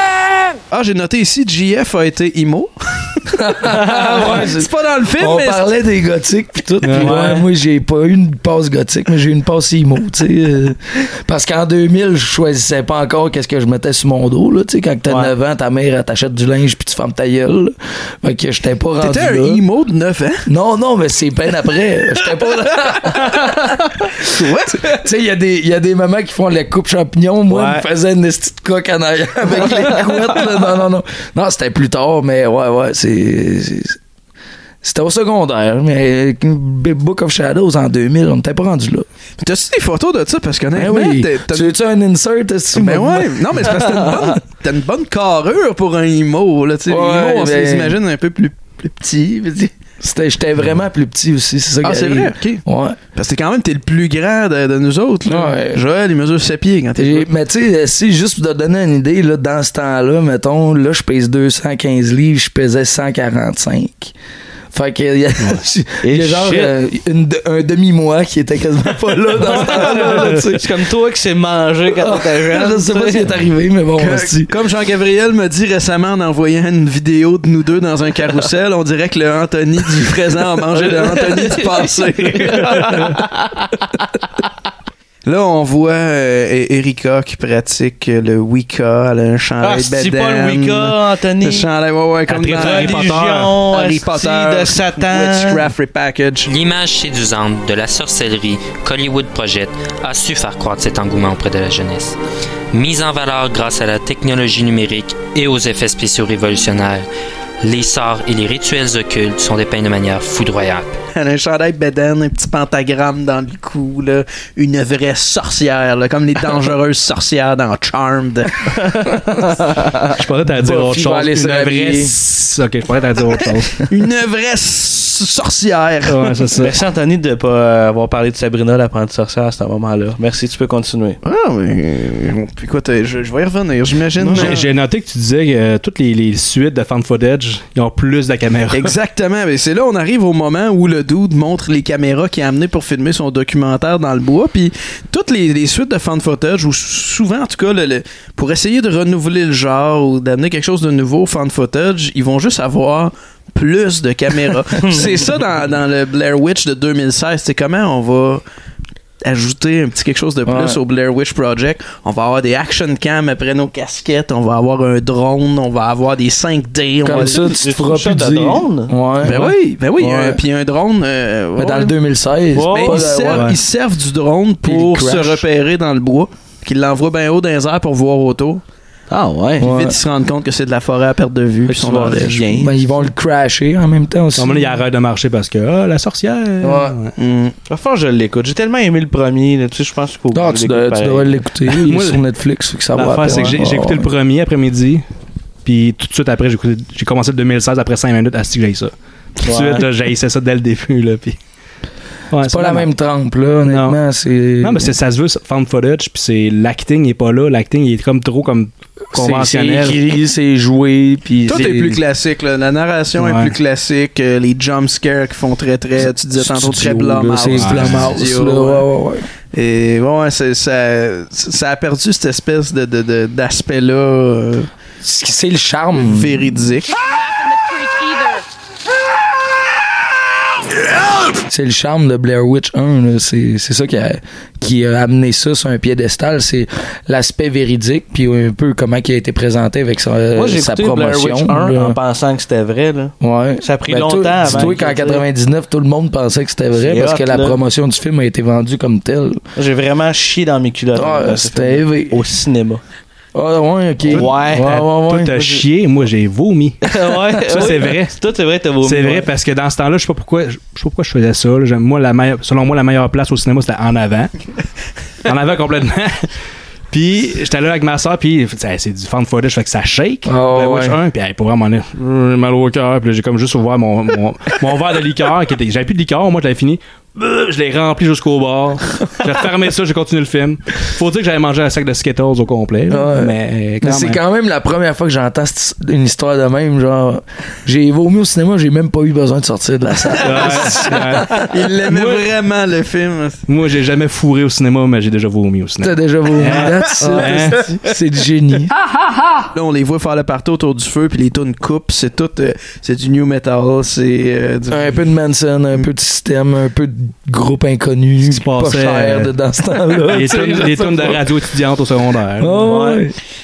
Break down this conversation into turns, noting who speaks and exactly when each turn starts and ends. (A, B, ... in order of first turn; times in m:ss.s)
0:00.7-0:05.7 A
0:03.4-0:19.6 B
0:06.8-0:07.2 C
0:06.9-0:07.4 D
0:15.1-0:15.3 D
0:19.0-0:20.5 A
0:20.5-0:23.9 B
0:24.2-0:25.0 A
0:24.7-0:34.0 B
0:27.5-0:27.8 D
0:29.6-0:30.3 D
0:34.8-0:39.1 B
0:39.4-0:41.8 A
0:40.7-0:43.8 B
0:42.7-0:49.7 A
0:46.9-0:48.0 B
0:50.0-0:53.0 B
0:51.8-0:52.6 A
0:53.1-0:57.3 A
0:55.2-0:55.8 B
0:57.0-1:04.1 B
1:04.7-1:10.6 B
1:06.0-1:06.7 D
1:09.4-1:13.3 D
1:12.0-1:14.5 B
1:14.0-1:23.1 A
1:20.9-1:23.7 D
1:25.2-1:36.5 A
1:29.6-1:31.7 D
1:32.3-1:33.5 C
1:32.3-1:35.7 D
1:36.5-1:42.2 E
1:42.7-1:47.1 E
1:47.6-1:50.9 E
1:51.1-1:58.8 A
2:00.1-2:03.8 C
2:00.6-2:02.1 B
2:03.8-2:06.3 A
2:06.0-2:06.7 C
2:06.6-2:11.2 D
2:11.2-2:14.6 A
2:14.2-2:18.9 C
2:18.7-2:38.4 A
2:34.8-2:35.1 D
2:39.2-2:47.4 A
2:40.4-2:40.8 B
2:47.0-2:50.4 B
2:47.1-2:48.9 D
2:49.2-2:51.9 A
2:51.6-2:53.5 B
2:52.5-2:53.1 D
2:52.7-2:58.6 A
2:53.3-2:53.6 C
2:54.6-2:55.4 B
2:59.1-2:59.7 D
2:59.6-3:00.0 B
2:59.6-3:02.5 A
3:01.6-3:02.8 D
3:02.6-3:04.7 B
3:04.4-3:07.1 C
3:06.6-3:07.0 B
3:07.2-3:07.5 A
3:07.7-3:11.4 D
3:10.3-3:14.1 B
3:11.7-3:12.2 C
3:12.9-3:15.0 C
3:15.6-3:21.4 C
3:19.4-3:19.9 D
3:22.3-3:22.9 C
3:22.5-3:24.9 B
3:23.7-3:24.0 C
3:24.6-3:30.0 C
3:29.1-3:32.0 B
3:31.5-3:38.8 A
3:33.2-3:33.5 C
3:36.2-3:39.2 B
3:37.6-3:38.0 C
3:39.5-3:44.7 A
3:45.0-3:46.6 B
3:46.0-3:47.0 A
3:51.4-4:02.0 B
4:00.3-4:05.2 D
4:03.2-4:09.4 B
4:06.8-4:07.6 D
4:09.6-4:12.8 D
4:10.9-4:12.2 B
4:13.3-4:15.4 B
4:14.1-4:14.8 D
4:14.1-4:18.2 C
4:16.9-4:19.3 D
4:18.8-4:24.3 C
4:25.2-4:26.2 C
4:26.9-4:44.2 C
4:30.2-4:31.0 B
4:42.9-4:51.4 B
4:50.2-4:52.3 C
4:51.3-4:53.4 A
4:53.5-4:57.7 C
4:55.8-4:58.7 B
4:57.2-4:57.8 A
4:59.5-5:05.0 A
5:04.7-5:11.2 B
5:08.2-5:09.3 C
5:10.0-5:12.7 C
5:12.4-5:13.1 B
5:12.6-5:13.0 D